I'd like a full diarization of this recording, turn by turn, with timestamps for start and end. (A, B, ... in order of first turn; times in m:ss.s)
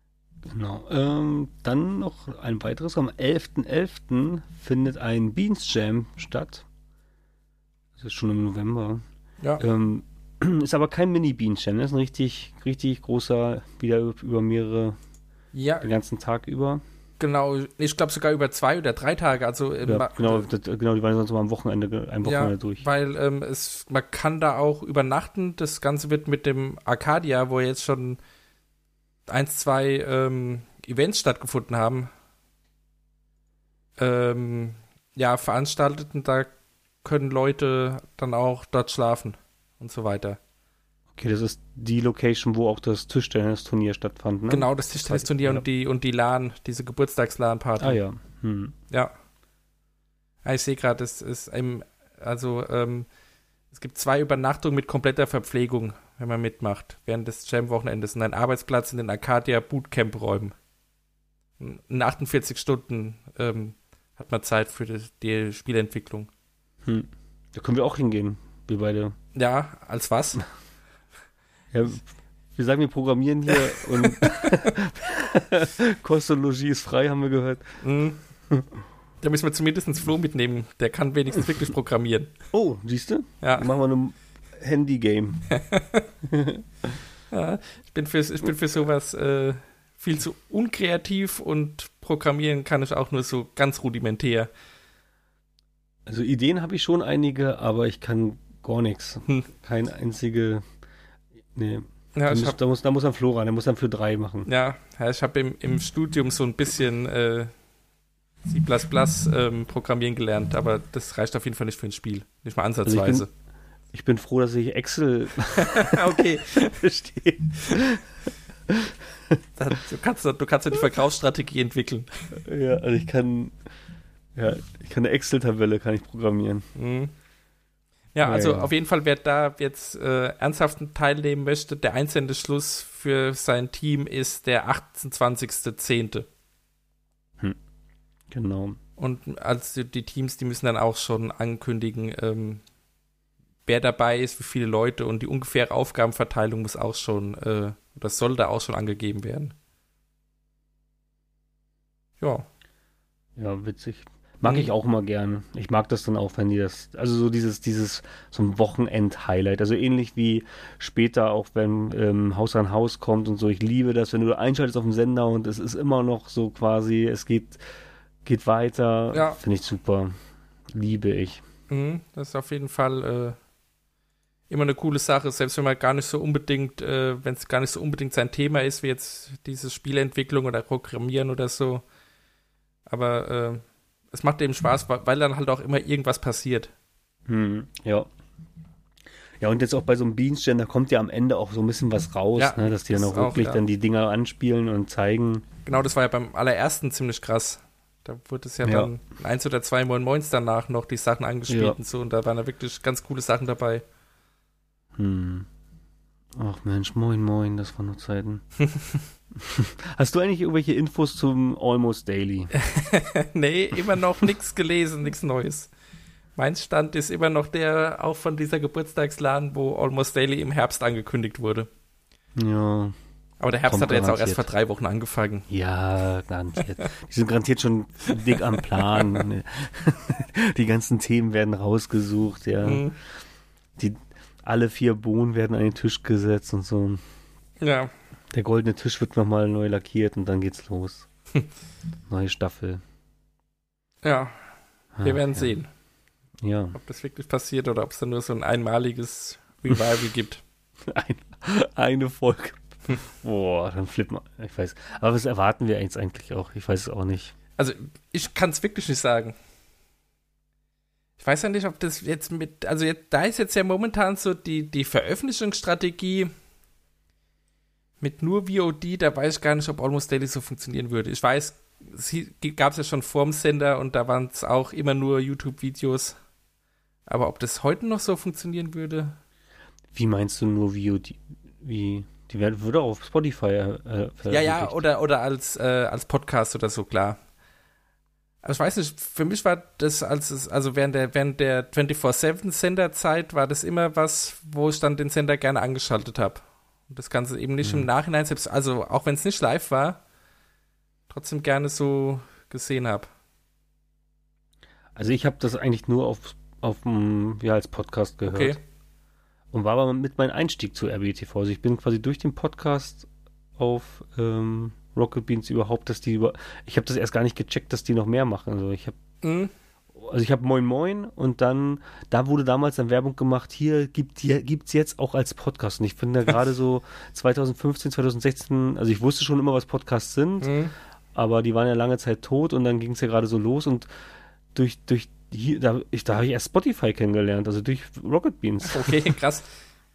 0:00.4-0:06.7 A
0:08.0-0:09.0 A
0:09.6-0:15.0 A
0:15.5-0:15.9 B
0:15.8-0:16.8 A
0:17.2-0:20.5 B
0:19.8-0:22.8 A
0:22.2-0:28.2 B
0:29.3-0:32.1 B
0:34.0-0:36.5 B
0:37.0-0:40.4 B
0:41.1-0:45.6 A
0:44.5-0:48.0 B
0:47.8-0:48.8 A
0:50.4-0:53.1 B
0:53.7-1:00.5 B
1:01.6-1:06.3 B
1:06.8-1:09.2 A
1:09.4-1:10.4 B
1:11.7-1:17.8 A
1:14.0-1:14.5 B
1:17.8-1:18.2 B
1:19.2-1:22.3 B
1:22.5-1:25.4 A
1:23.4-1:23.7 B
1:25.7-1:26.0 B
1:26.2-1:27.0 A
1:27.3-1:34.5 B
1:36.1-1:40.6 A
1:41.6-1:44.5 A
1:42.2-1:42.6 B
1:44.5-1:47.5 B
1:48.4-1:53.3 B
1:52.8-1:53.3 A
1:53.9-1:58.0 A
1:55.6-1:56.8 B
1:58.7-1:59.4 A
1:59.6-2:02.1 B
2:02.4-2:03.6 A
2:04.4-2:06.7 A
2:06.8-2:07.1 B
2:08.1-2:16.3 B
2:08.2-2:08.7 A
2:18.3-2:18.8 A
2:19.0-2:22.6 B
2:23.7-2:29.5 B
2:32.2-2:32.5 B
2:33.4-2:47.6 A
2:48.2-2:50.1 A
2:49.1-2:49.4 B
2:50.7-2:51.4 A
2:51.7-2:53.4 B
2:54.5-3:01.8 B
3:02.9-3:06.7 B
3:07.3-3:08.1 A
3:09.4-3:15.4 A
3:12.4-3:13.6 B
3:15.6-3:23.8 B
3:18.6-3:18.9 A
3:21.5-3:21.8 A
3:25.0-3:25.5 A
3:26.4-3:28.4 A
3:28.7-3:29.0 B
3:29.4-3:32.5 A
3:32.5-3:35.7 B
3:36.4-3:41.7 B
3:42.4-3:43.0 A
3:43.4-3:45.5 B
3:43.7-3:44.5 A
3:45.5-3:52.9 A
3:48.7-3:49.2 B
3:52.6-3:53.0 B
3:53.8-3:57.0 A
3:57.6-3:57.9 B
3:58.3-4:01.1 A
4:02.1-4:02.8 A
4:04.0-4:04.4 B
4:05.0-4:05.5 A
4:05.0-4:05.7 B
4:06.4-4:06.8 A
4:06.7-4:10.4 B
4:10.8-4:17.3 A
4:17.6-4:19.4 B
4:21.2-4:26.3 B
4:28.0-4:36.2 B
4:37.1-4:39.2 B
4:39.9-4:44.8 A
4:44.3-4:47.2 B
4:48.4-5:00.0 B
4:57.6-4:57.9 A
5:01.1-5:03.1 B
5:05.0-5:08.6 A
5:08.3-5:08.6 B
5:09.5-5:19.0 A
5:19.2-5:19.5 B
5:20.0-5:30.6 A
5:30.4-5:30.7 B
5:31.2-5:33.9 A
5:34.5-5:39.0 A
5:38.6-5:39.5 B